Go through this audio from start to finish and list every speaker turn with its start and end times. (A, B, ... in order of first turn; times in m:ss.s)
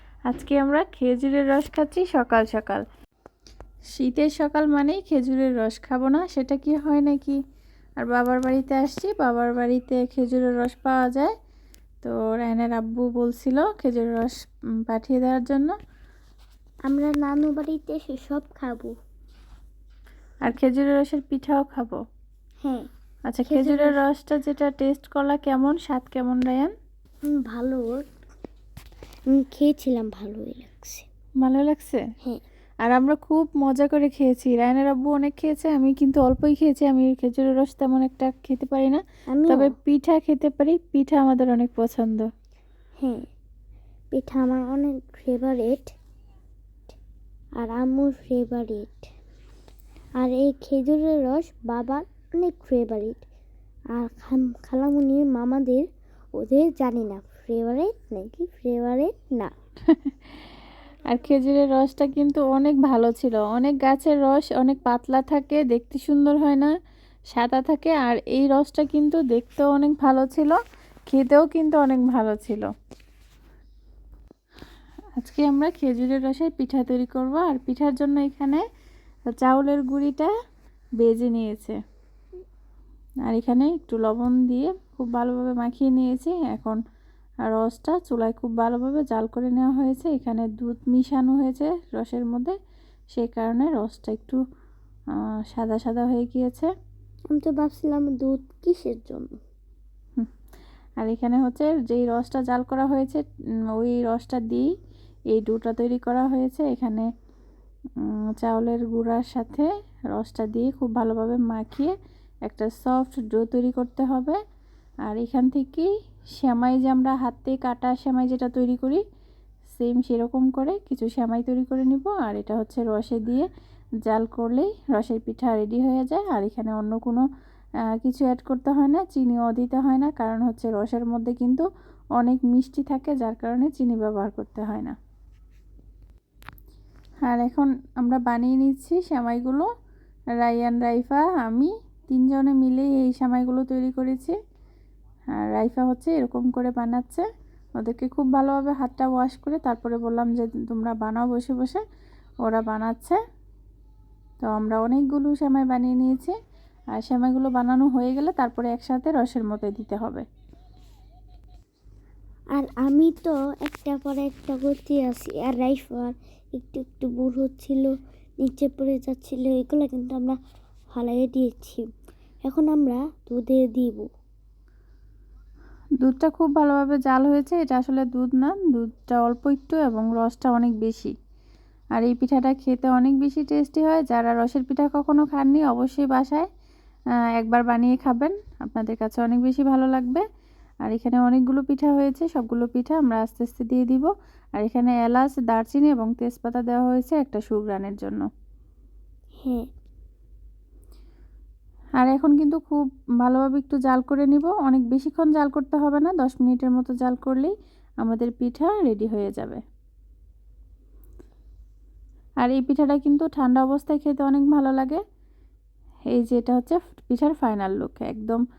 0:00.3-0:02.8 A
0:04.0-0:07.4 A
0:08.0-0:11.3 A
0:12.0-0:14.3 A
0:14.9-0:15.7 A
0:16.9-0:18.9 B
0:20.4-0:22.0 A
0:23.3-0:26.7 A
0:23.4-0:24.0 B
0:27.3-0:27.9 B
0:29.3-0:31.1 B
0:31.4-0:32.0 A
0:32.8-0:42.3 A
0:39.3-0:39.7 B
0:44.1-0:45.9 B
0:47.6-0:49.0 B
0:50.2-0:53.2 B
0:53.9-0:55.8 B
0:56.4-0:59.5 B
0:59.9-1:00.3 A
1:01.1-1:06.7 A
1:07.3-1:10.6 A
1:11.1-1:12.6 A
1:15.2-1:18.6 A
1:19.3-1:20.3 A
1:21.0-1:21.8 A
1:23.3-1:26.8 A
1:27.4-1:32.5 A
1:33.1-1:34.4 A
1:35.5-1:36.7 A
1:37.3-1:39.4 B
1:41.0-1:43.2 A
1:43.7-1:44.7 A
1:45.3-1:47.0 A
1:48.0-1:51.9 A
1:52.5-1:54.4 A
1:55.1-1:59.0 A
1:59.7-2:03.5 A
2:04.0-2:07.2 A
2:08.0-2:11.6 A
2:12.2-2:14.9 A
2:17.2-2:19.7 A
2:20.4-2:24.4 A
2:25.3-2:27.2 A
2:27.8-2:31.8 A
2:32.4-2:33.2 A
2:34.4-2:36.3 A
2:37.0-2:40.2 A
2:42.6-2:50.4 B
2:50.9-2:51.8 B
2:52.4-2:54.1 B
2:56.0-3:01.1 A
3:02.0-3:06.5 A
3:07.4-3:10.2 A
3:10.8-3:18.2 A
3:22.0-3:29.6 A
3:32.4-3:35.0 A
3:36.1-3:38.4 A